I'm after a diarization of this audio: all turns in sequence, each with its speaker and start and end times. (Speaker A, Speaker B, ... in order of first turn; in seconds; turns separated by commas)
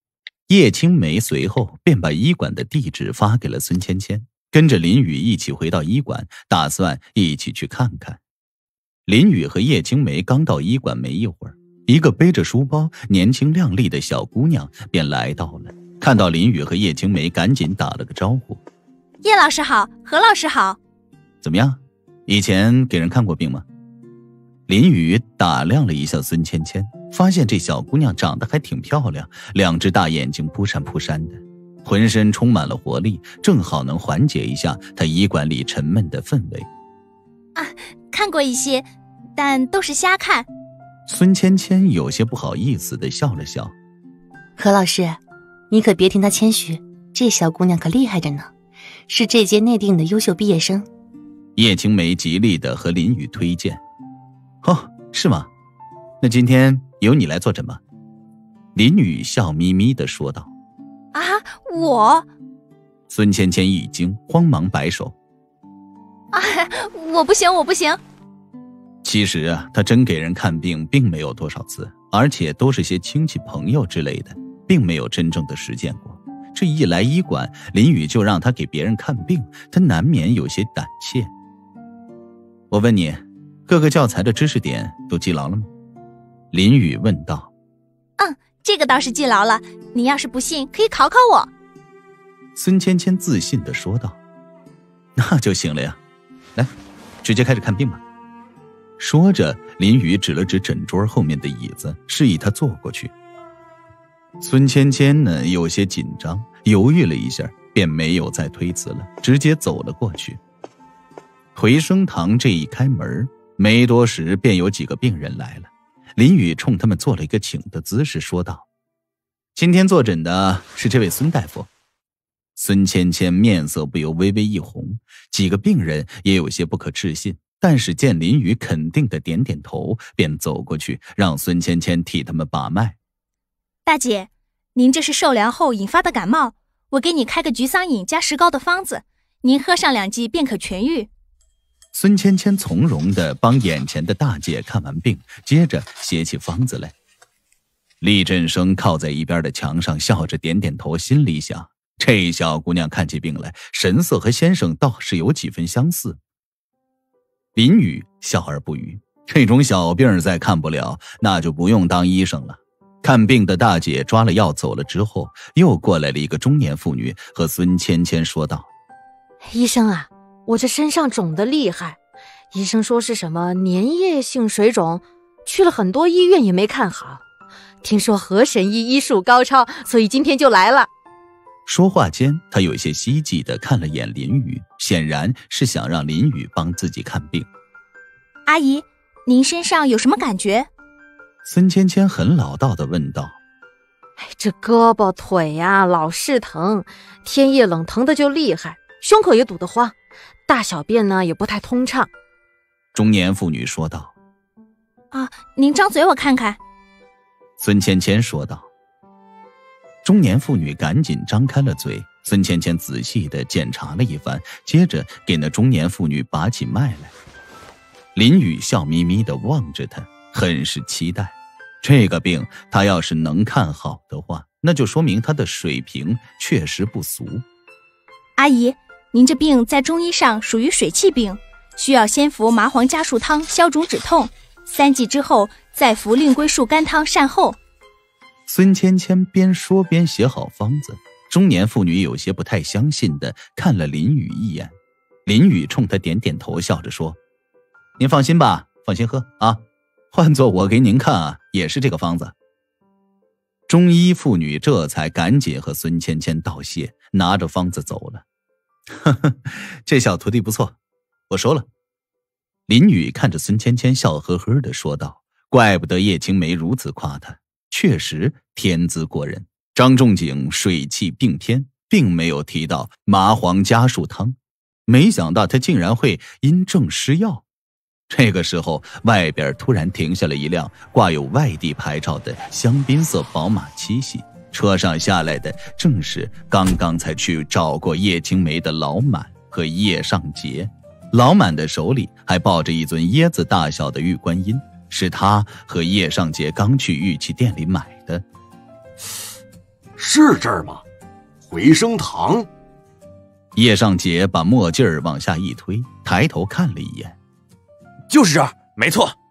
Speaker A: 0.5-8.2, Speaker A: 9.1-18.6, Speaker B: 19.2-20.8, Speaker A: 21.4-23.6, Speaker A: 24.7-36.7, Speaker B: 37.6-40.5, Speaker A: 41.1-43.7, Speaker C: 44.6-45.2, Speaker C: 45.7-48.5, Speaker C: 49.1-50.9, Speaker A: 51.6-53.8, Speaker A: 54.6-55.5, Speaker A: 56.2-57.8, Speaker A: 58.8-60.5, Speaker B: 61.1-62.3, Speaker A: 63.1-65.2, Speaker B: 66.3-68.0, Speaker A: 69.0-81.3, Speaker A: 82.7-85.7, Speaker A: 86.5-87.5, Speaker B: 88.2-91.5, Speaker A: 92.5-94.2, Speaker A: 95.2-96.0, Speaker A: 97.2-98.0, Speaker A: 99.0-103.1, Speaker A: 104.4-110.4, Speaker A: 111.5-118.7, Speaker A: 119.5-121.7, Speaker A: 122.5-133.0, Speaker B: 133.8-141.1, Speaker A: 141.9-146.9, Speaker A: 148.0-156.2, Speaker A: 157.6-168.7, Speaker D: 169.5-172.0, Speaker D: 172.5-177.2, Speaker D: 177.8-180.9, Speaker A: 181.7-187.5, Speaker B: 188.5-190.7, Speaker A: 191.4-193.4, Speaker D: 194.2-199.9, Speaker D: 200.5-202.1, Speaker A: 202.9-204.1, Speaker B: 205.1-206.6, Speaker A: 207.6-208.7, Speaker A: 210.0-217.1, Speaker A: 218.2-227.4, Speaker B: 228.4-237.6, Speaker A: 238.5-244.7, Speaker A: 245.3-247.2, Speaker A: 248.0-249.6, Speaker A: 250.1-252.3, Speaker A: 253.7-258.2, Speaker A: 258.9-260.8, Speaker A: 261.3-261.7, Speaker A: 262.7-277.4, Speaker A: 278.1-298.2, Speaker E: 300.0-300.8, Speaker E: 301.4-302.5, Speaker A: 303.6-307.2, Speaker E: 308.1-309.1